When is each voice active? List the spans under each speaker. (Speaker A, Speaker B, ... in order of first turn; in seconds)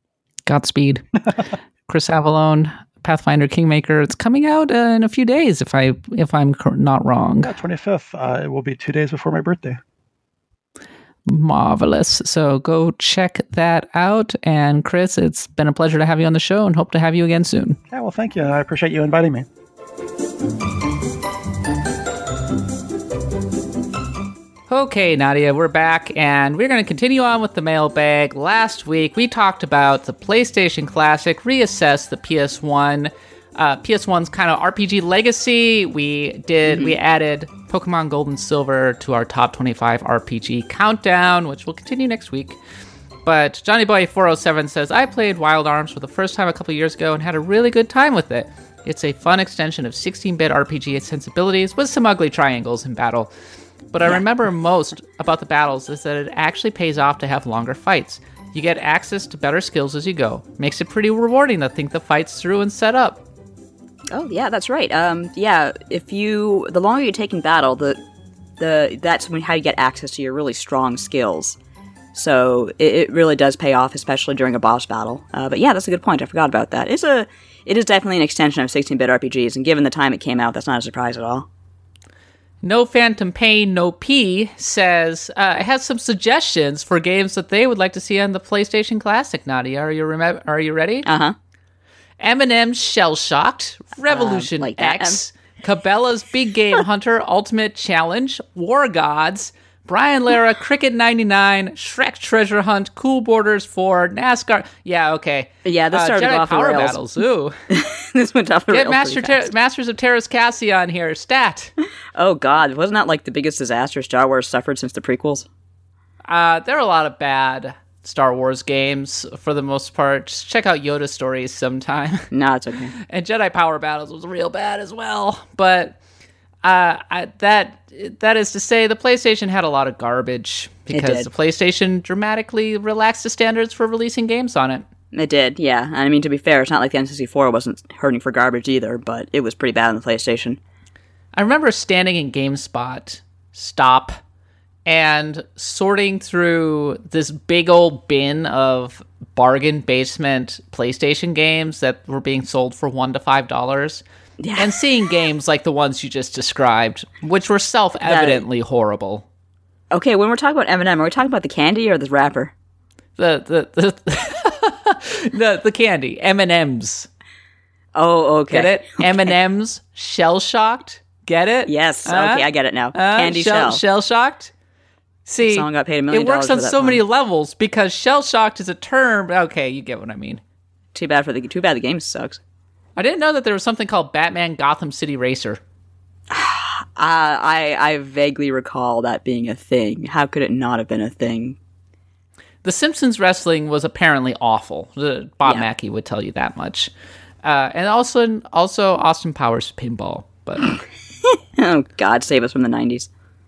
Speaker A: 0.5-1.1, 1.9-7.5, 11.2-17.8, 24.7-42.6, 43.2-53.3, 53.9-63.2, 82.6-91.1, 92.2-107.5, 108.7-111.7, 116.3-122.3, 123.0-126.0, 126.6-134.8, 141.3-144.2, 144.8-154.0, 154.6-159.2, 163.2-167.1, 168.5-174.5, 175.2-180.4, 182.9-185.6, 192.6-196.9, 197.4-200.8
Speaker B: 7.4-9.8, 17.9-19.4
Speaker C: 36.6-37.0, 64.1-68.0, 68.6-71.6, 72.1-81.5, 91.0-91.3, 94.1-95.2, 105.6-107.0, 107.7-109.5, 112.1-115.5, 122.3-122.9, 130.9-131.3, 135.1-140.6, 154.4-154.8, 158.0-158.4, 159.9-162.5, 167.9-169.3, 171.7-173.8, 175.4-177.0, 180.9-182.4, 186.3-191.6, 201.2-203.1